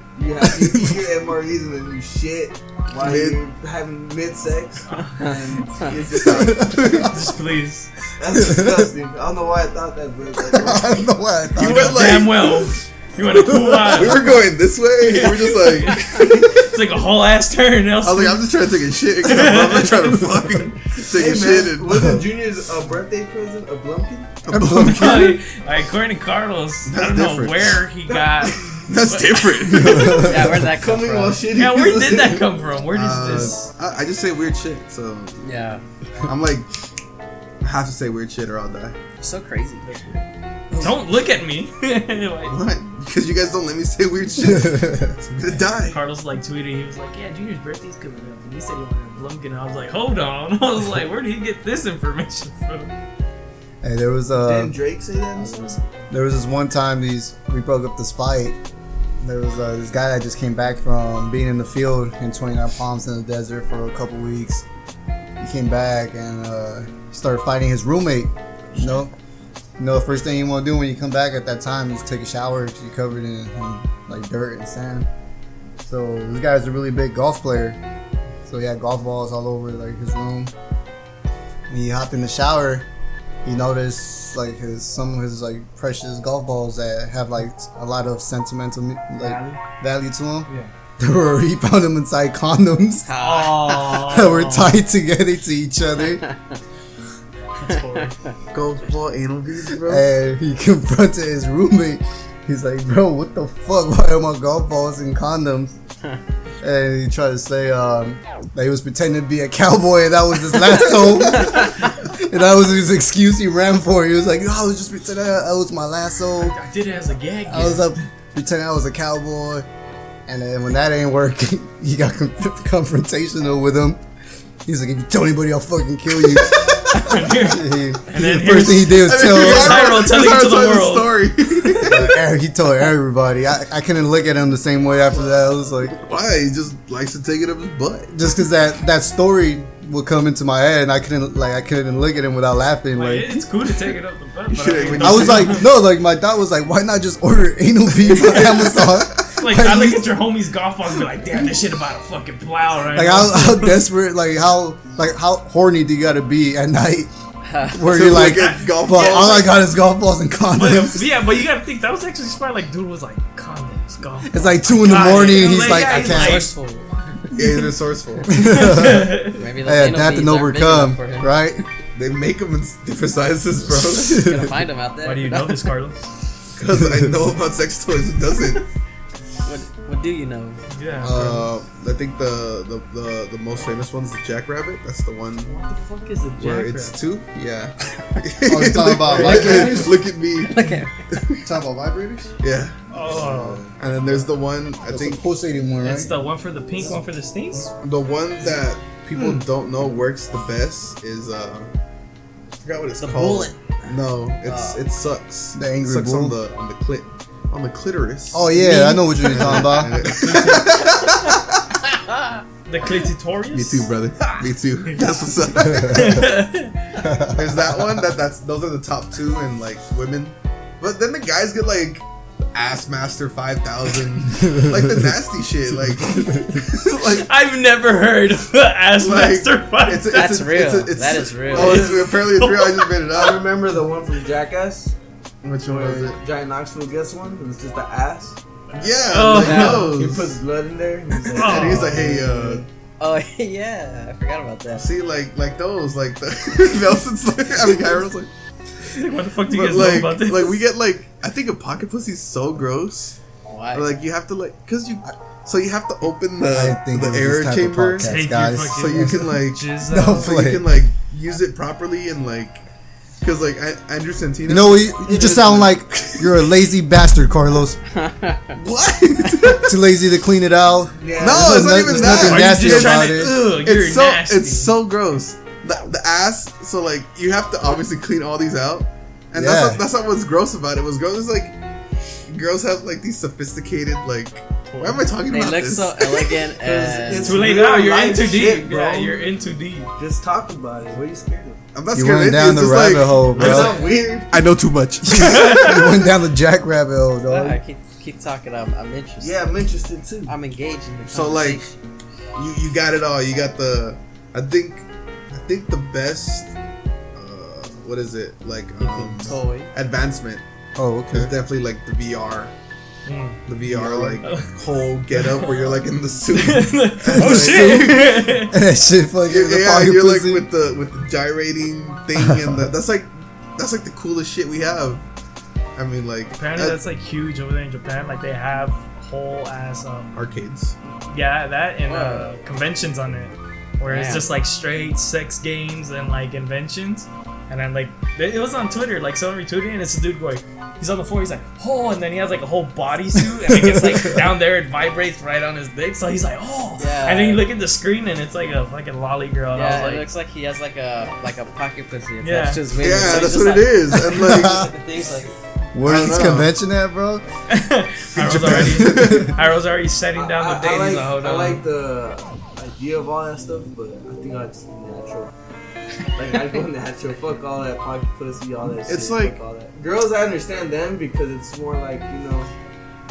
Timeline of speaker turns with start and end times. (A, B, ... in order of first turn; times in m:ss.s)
0:00.2-0:06.4 A
0:00.6-0:01.0 B
0:03.0-0:03.4 C
0:04.9-0:05.3 D
0:05.8-0:07.2 C
0:06.2-0:07.1 B
0:07.0-0:07.9 D
0:08.2-0:11.0 A
0:08.3-0:08.9 B
0:10.4-0:12.1 B
0:11.6-0:12.7 C
0:11.6-0:14.5 D
0:13.5-0:14.0 B
0:13.8-0:16.3 C
0:15.0-0:18.5 D
0:18.0-0:22.0 C
0:19.2-0:20.5 D
0:21.1-0:24.4 A
0:24.5-0:25.4 C
0:24.5-0:25.4 B
0:24.6-0:30.0 D
0:26.9-0:27.8 C
0:28.1-0:28.6 A
0:28.8-0:30.6 C
0:29.8-0:30.5 B
0:30.0-0:31.5 E
0:30.2-0:32.5 A
0:31.5-0:33.7 D
0:32.9-0:35.4 C
0:35.4-0:35.8 E
0:36.2-0:36.7 C
0:37.6-0:39.0 C
0:39.2-0:40.0 E
0:39.9-0:40.2 D
0:40.7-0:42.6 D
0:42.5-0:46.0 C
0:44.5-0:45.1 B
0:45.8-0:52.9 D
0:53.8-0:54.8 B
0:54.4-0:56.1 A
0:55.4-0:58.6 B
0:59.2-1:04.6 B
1:05.4-1:09.1 B
1:09.8-1:15.1 B
1:15.8-1:17.8 B
1:18.5-1:20.5 B
1:21.7-1:22.9 B
1:23.4-1:33.1 B
1:29.2-1:29.6 A
1:33.0-1:34.0 E
1:33.2-1:34.8 D
1:33.9-1:36.2 B
1:36.2-1:36.6 E
1:37.6-1:38.1 D
1:37.7-1:38.3 E
1:38.5-1:40.1 C
1:39.8-1:45.8 B
1:46.6-1:56.6 B
1:56.4-1:57.9 D
1:57.5-1:59.7 B
2:00.3-2:04.0 B
2:04.6-2:09.9 B
2:06.7-2:11.9 D
2:08.9-2:12.2 C
2:11.8-2:16.0 B
2:16.0-2:18.1 C
2:18.1-2:23.4 B
2:22.9-2:25.7 D
2:24.5-2:25.6 C
2:25.0-2:30.2 B
2:28.1-2:28.9 C
2:29.4-2:33.9 D
2:32.9-2:37.1 B
2:37.4-2:38.0 E
2:37.7-2:41.1 B
2:37.8-2:39.5 C
2:38.2-2:39.5 D
2:40.5-2:46.5 D
2:44.3-2:46.5 B
2:45.0-2:47.2 E
2:47.3-2:48.3 C
2:48.3-2:51.6 B
2:48.3-2:49.4 D
2:49.3-2:51.3 E
2:52.0-2:54.5 C
2:54.1-2:55.7 E
2:54.2-2:54.5 B
2:55.0-2:56.1 D
2:56.6-2:58.6 C
2:59.4-3:00.6 E
3:00.7-3:01.4 D
3:01.0-3:05.5 C
3:05.5-3:07.0 D
3:06.4-3:11.4 C
3:08.4-3:10.0 B
3:09.1-3:09.9 D
3:10.4-3:10.9 E
3:11.4-3:12.3 B
3:12.4-3:12.8 C
3:12.9-3:13.7 D
3:13.8-3:15.2 C
3:14.8-3:16.1 B
3:15.8-3:17.7 D
3:17.8-3:21.7 C
3:19.2-3:19.4 A
3:22.6-3:31.7 C
3:23.0-3:24.8 E
3:25.6-3:26.4 B
3:28.3-3:30.4 B
3:30.1-3:30.7 D
3:32.1-3:32.4 E
3:32.7-3:33.9 D
3:33.5-3:36.4 C
3:35.6-3:36.8 D
3:35.8-3:36.2 B
3:37.0-3:37.4 B
3:37.2-3:47.2 C
3:46.9-3:50.5 D
3:49.0-3:53.4 C
3:50.1-3:51.9 E
3:51.5-3:52.9 D
3:51.6-3:52.0 A
3:53.1-3:55.0 A
3:55.4-3:56.2 C
3:55.7-3:58.4 A
3:58.7-4:00.4 C
3:58.8-4:00.0 D
3:59.3-3:59.9 E
3:59.4-4:02.7 A
4:01.3-4:02.1 D
4:01.3-4:02.6 C
4:03.0-4:04.9 E
4:04.8-4:08.3 C
4:08.9-4:10.6 D
4:09.5-4:13.2 C
4:13.5-4:13.9 E
4:13.7-4:18.1 C
4:16.5-4:20.8 B
4:18.0-4:20.3 D
4:18.7-4:22.6 C
4:23.2-4:26.3 C
4:24.5-4:27.8 B
4:27.9-4:28.6 E
4:28.5-4:29.8 C
4:29.6-4:33.4 B
4:30.9-4:31.9 A
4:31.2-4:41.6 C
4:31.9-4:34.7 D
4:39.3-4:39.8 B
4:42.3-4:46.4 C
4:44.7-4:45.1 D
4:45.3-4:47.4 E
4:46.6-4:49.3 A
4:47.1-4:49.9 D
4:50.0-4:51.6 A
4:51.7-4:55.9 C
4:51.9-4:53.8 B
4:53.4-4:54.3 A
4:55.0-4:57.6 B
4:55.1-4:55.8 D
4:57.3-4:59.4 E
4:59.2-5:00.3 A
5:00.2-5:01.8 E
5:01.1-5:01.6 C
5:02.4-5:06.5 C
5:07.2-5:10.4 C
5:08.8-5:09.7 E
5:10.8-5:11.4 B
5:11.1-5:12.5 C
5:13.0-5:13.4 D
5:13.5-5:18.1 C
5:13.6-5:14.2 B
5:14.2-5:14.5 D
5:15.1-5:15.8 D
5:16.3-5:18.6 D
5:17.1-5:20.5 B
5:19.3-5:25.0 C
5:22.2-5:22.7 B
5:25.8-5:26.8 C
5:26.3-5:30.2 D
5:30.1-5:30.8 C
5:30.9-5:50.0 D
5:31.9-5:32.4 E
5:33.9-5:34.3 E
5:46.8-5:47.4 E
5:49.5-5:55.4 E
5:52.2-5:52.6 D
5:52.8-5:54.7 C
5:54.1-5:54.7 B
5:55.7-5:57.2 B
5:55.8-5:56.5 C
5:57.5-6:01.6 D
5:58.1-5:59.4 C
5:58.4-5:59.3 B
6:00.2-6:05.3 A
6:06.2-6:12.5 A
6:08.9-6:09.4 C